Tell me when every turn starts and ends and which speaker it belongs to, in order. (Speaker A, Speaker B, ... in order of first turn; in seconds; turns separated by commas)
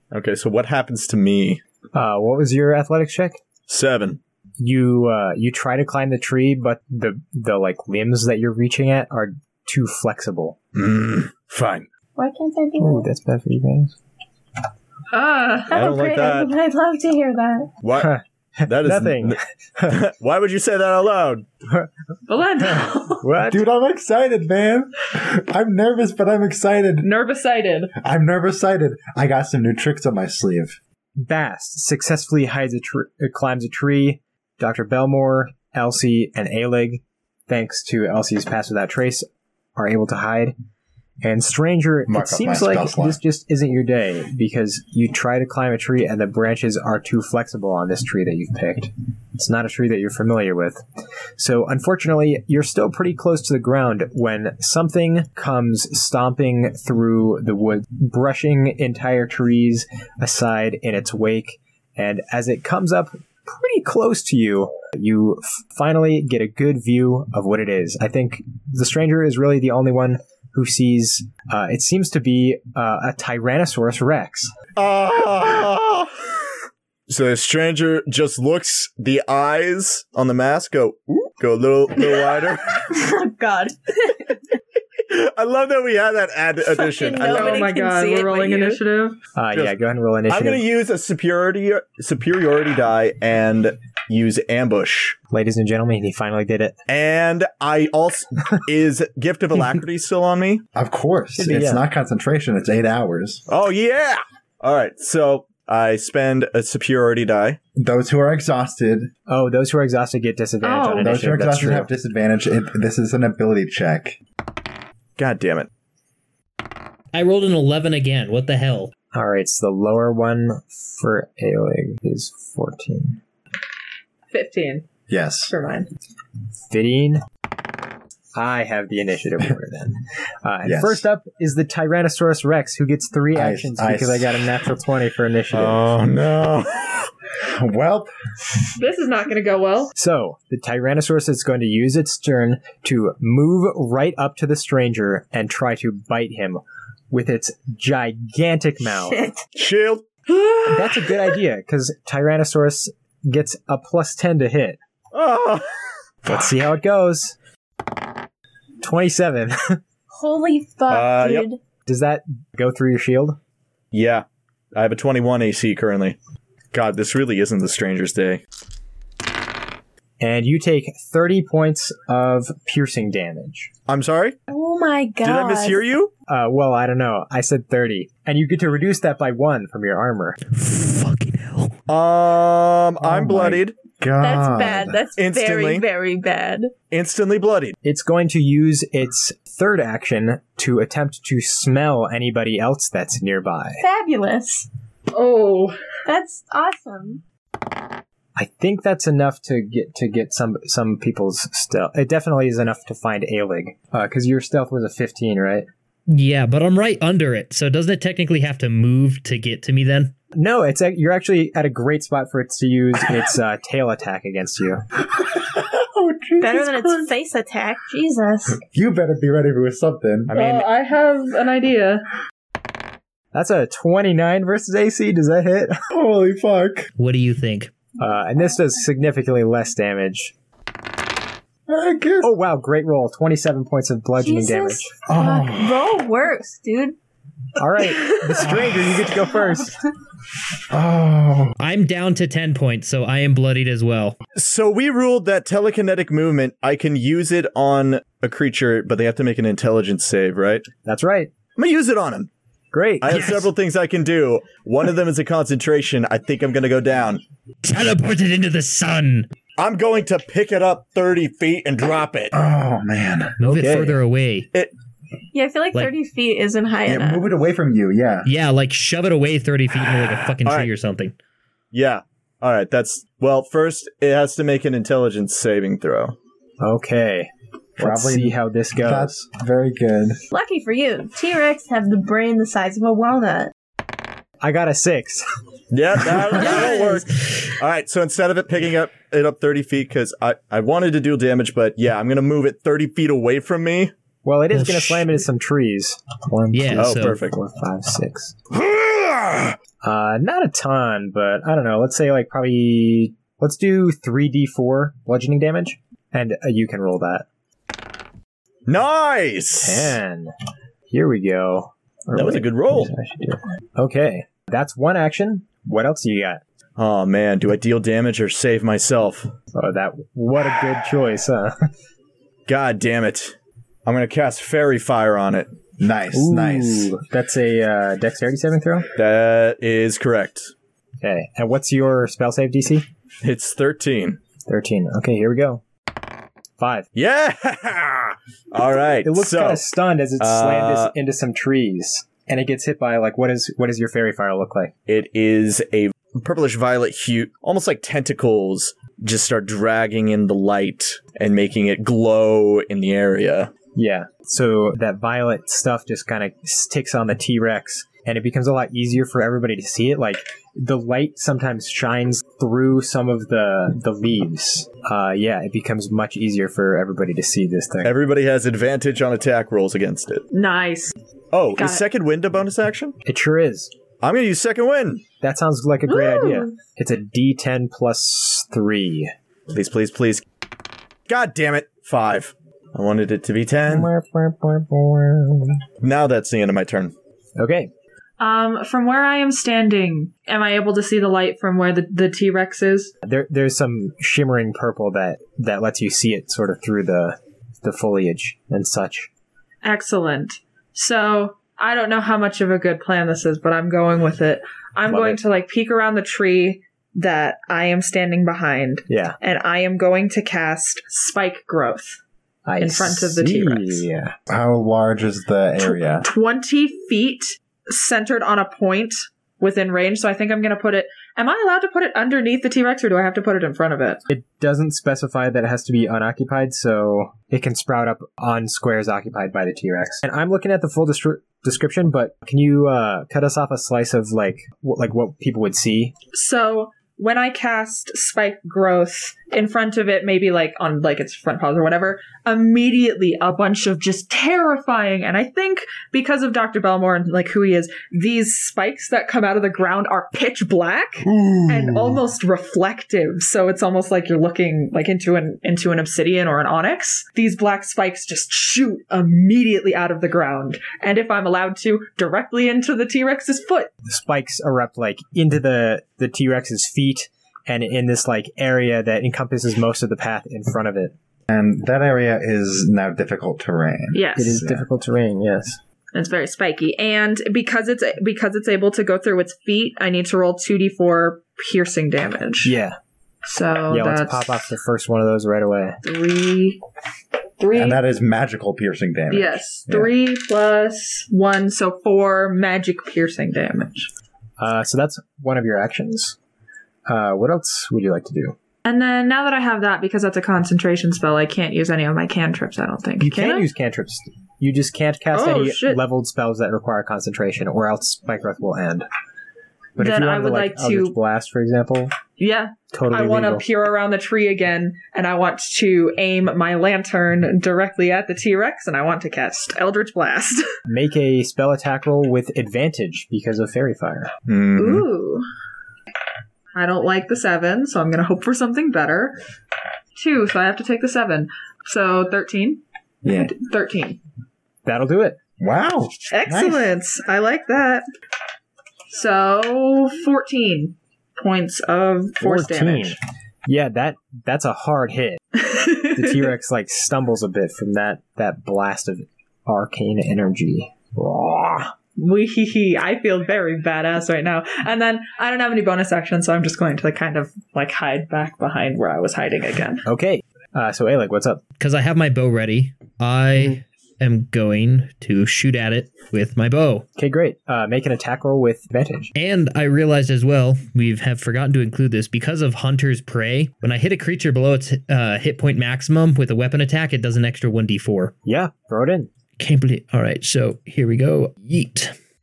Speaker A: 0.1-1.6, Speaker B: 1.9-3.4, Speaker A: 3.7-4.2, Speaker B: 4.6-10.6, Speaker A: 10.8-11.9, Speaker C: 12.2-13.1, Speaker B: 12.8-13.9, Speaker D: 15.1-15.8, Speaker C: 15.7-17.7, Speaker A: 15.7-16.5, Speaker A: 17.8-21.5, Speaker B: 18.0-20.0, Speaker D: 22.3-23.2, Speaker B: 23.2-23.6, Speaker E: 23.5-27.1, Speaker D: 27.0-27.9, Speaker E: 28.0-30.8, Speaker B: 31.2-40.5, Speaker B: 41.2-50.8, Speaker E: 42.1-43.2, Speaker B: 51.4-74.5, Speaker A: 74.8-76.3, Speaker A: 77.1-83.0, Speaker C: 82.0-84.4, Speaker A: 85.0-87.7, Speaker C: 86.7-88.8, Speaker D: 87.3-89.2, Speaker B: 89.3-90.6, Speaker A: 90.3-95.2, Speaker B: 95.3-96.8, Speaker A: 96.9-100.6, Speaker E: 100.8-103.4, Speaker B: 101.4-101.8, Speaker A: 103.5-107.6, Speaker E: 107.8-109.1, Speaker B: 109.3-111.9, Speaker D: 110.6-111.2, Speaker E: 111.0-114.2, Speaker A: 115.2-115.7, Speaker F: 117.1-118.9, Speaker B: 119.1-123.2, Speaker D: 124.3-124.9, Speaker E: 125.1-125.5, Speaker D: 125.4-125.9, Speaker B: 126.7-127.2, Speaker B: 128.3-135.9, Speaker E: 130.6-131.1, Speaker E: 133.3-134.6, Speaker A: 135.5-137.1, Speaker E: 137.4-138.1, Speaker D: 138.8-139.9, Speaker B: 139.9-149.2, Speaker A: 149.6-150.6, Speaker B: 150.7-154.8, Speaker A: 155.1-155.8, Speaker B: 156.2-157.4, Speaker B: 158.8-159.8, Speaker C: 160.1-161.6, Speaker A: 160.9-161.5, Speaker B: 161.8-163.4, Speaker A: 163.9-166.2, Speaker A: 166.7-168.4, Speaker B: 170.2-173.7, Speaker A: 173.9-174.4, Speaker C: 174.5-175.8, Speaker A: 175.2-176.1, Speaker B: 176.3-180.4, Speaker F: 180.5-181.8, Speaker A: 181.9-183.8, Speaker E: 183.0-185.0, Speaker C: 184.2-186.7, Speaker A: 185.2-185.9, Speaker A: 186.9-187.8, Speaker B: 187.8-193.8, Speaker C: 193.8-194.7, Speaker D: 195.1-195.8, Speaker C: 196.1-197.2, Speaker B: 198.4-205.7, Speaker F: 206.1-210.1, Speaker B: 210.3-214.8, Speaker E: 215.2-217.1, Speaker C: 216.4-218.6, Speaker E: 218.6-220.3, Speaker A: 220.3-220.7, Speaker D: 220.3-222.1, Speaker B: 223.3-225.8, Speaker E: 225.9-226.9, Speaker F: 227.0-227.7, Speaker B: 228.0-230.3, Speaker E: 231.7-232.3, Speaker B: 232.2-234.9, Speaker C: 234.2-237.0, Speaker E: 235.1-236.0, Speaker B: 237.6-239.8, Speaker E: 238.4-239.1, Speaker C: 239.4-239.7, Speaker E: 240.7-241.6, Speaker F: 241.6-244.2, Speaker A: 244.3-250.7, Speaker B: 250.8-251.3, Speaker A: 251.6-252.3, Speaker B: 252.7-253.2, Speaker A: 253.0-257.2, Speaker F: 253.1-253.5, Speaker F: 257.6-259.3, Speaker A: 259.6-262.3, Speaker E: 262.3-263.4, Speaker F: 263.4-264.5, Speaker B: 263.4-264.0, Speaker C: 265.3-267.3, Speaker E: 266.9-268.3, Speaker F: 268.2-271.1, Speaker A: 270.3-270.7, Speaker A: 271.7-276.2, Speaker B: 276.6-279.1, Speaker E: 277.8-280.2, Speaker C: 280.3-283.5, Speaker B: 284.4-285.3, Speaker A: 285.7-293.9, Speaker F: 286.5-287.4, Speaker C: 286.6-286.9, Speaker B: 294.2-298.4, Speaker F: 294.5-295.2, Speaker F: 296.5-297.2, Speaker A: 296.8-297.4, Speaker A: 298.5-299.6, Speaker B: 299.8-307.3, Speaker A: 308.7-310.0, Speaker B: 309.6-310.3, Speaker B: 310.9-316.4, Speaker A: 312.1-312.9, Speaker A: 316.8-319.3, Speaker B: 319.5-321.7, Speaker A: 322.5-325.5, Speaker E: 325.8-326.9, Speaker B: 326.1-328.9, Speaker A: 328.9-330.5, Speaker B: 331.0-332.9, Speaker A: 333.2-334.2, Speaker B: 334.5-335.6, Speaker B: 336.6-336.9, Speaker A: 336.9-339.7, Speaker B: 339.0-344.7, Speaker A: 340.2-340.9, Speaker A: 344.9-353.5, Speaker B: 353.8-368.0, Speaker A: 367.8-370.2, Speaker D: 370.3-370.9, Speaker A: 371.3-372.9, Speaker D: 371.6-371.9, Speaker B: 373.1-373.7, Speaker A: 374.0-375.0, Speaker B: 375.2-379.1, Speaker C: 375.9-376.5, Speaker A: 379.5-380.2, Speaker A: 381.1-383.9, Speaker B: 383.7-385.6, Speaker A: 385.8-386.9, Speaker B: 387.4-387.7, Speaker D: 388.2-392.9, Speaker B: 393.0-399.1, Speaker D: 399.6-412.0, Speaker B: 404.9-405.2, Speaker B: 408.9-409.2, Speaker B: 412.5-414.1, Speaker D: 412.6-413.9, Speaker E: 414.3-416.1, Speaker D: 415.6-424.0, Speaker B: 424.1-435.9, Speaker D: 436.1-463.7, Speaker E: 451.1-452.0, Speaker B: 463.9-470.9, Speaker E: 471.3-474.7, Speaker D: 473.9-474.4, Speaker B: 474.2-475.6, Speaker D: 475.9-482.5, Speaker B: 482.4-482.8, Speaker D: 483.3-484.5, Speaker B: 483.7-485.8, Speaker D: 485.8-486.6, Speaker D: 487.4-487.8, Speaker E: 487.5-489.9, Speaker D: 489.1-493.9, Speaker B: 494.4-496.2, Speaker B: 496.9-498.4, Speaker D: 498.6-503.5, Speaker B: 503.0-508.9, Speaker D: 505.1-505.8, Speaker B: 509.8-511.9, Speaker D: 509.8-511.0, Speaker D: 512.2-520.5, Speaker B: 512.7-513.5, Speaker B: 520.7-524.1, Speaker A: 524.3-524.9, Speaker D: 524.6-525.2, Speaker D: 526.5-529.2, Speaker D: 530.0-534.0, Speaker E: 533.0-533.3, Speaker B: 534.6-535.2, Speaker E: 535.4-536.7, Speaker D: 536.1-537.9, Speaker D: 538.9-543.0, Speaker B: 542.2-545.2, Speaker D: 545.4-546.3, Speaker B: 545.9-551.7, Speaker D: 552.0-559.8, Speaker B: 559.9-561.4, Speaker F: 561.6-566.9, Speaker B: 567.0-569.1, Speaker F: 569.1-578.1, Speaker B: 578.2-579.1, Speaker F: 579.4-582.0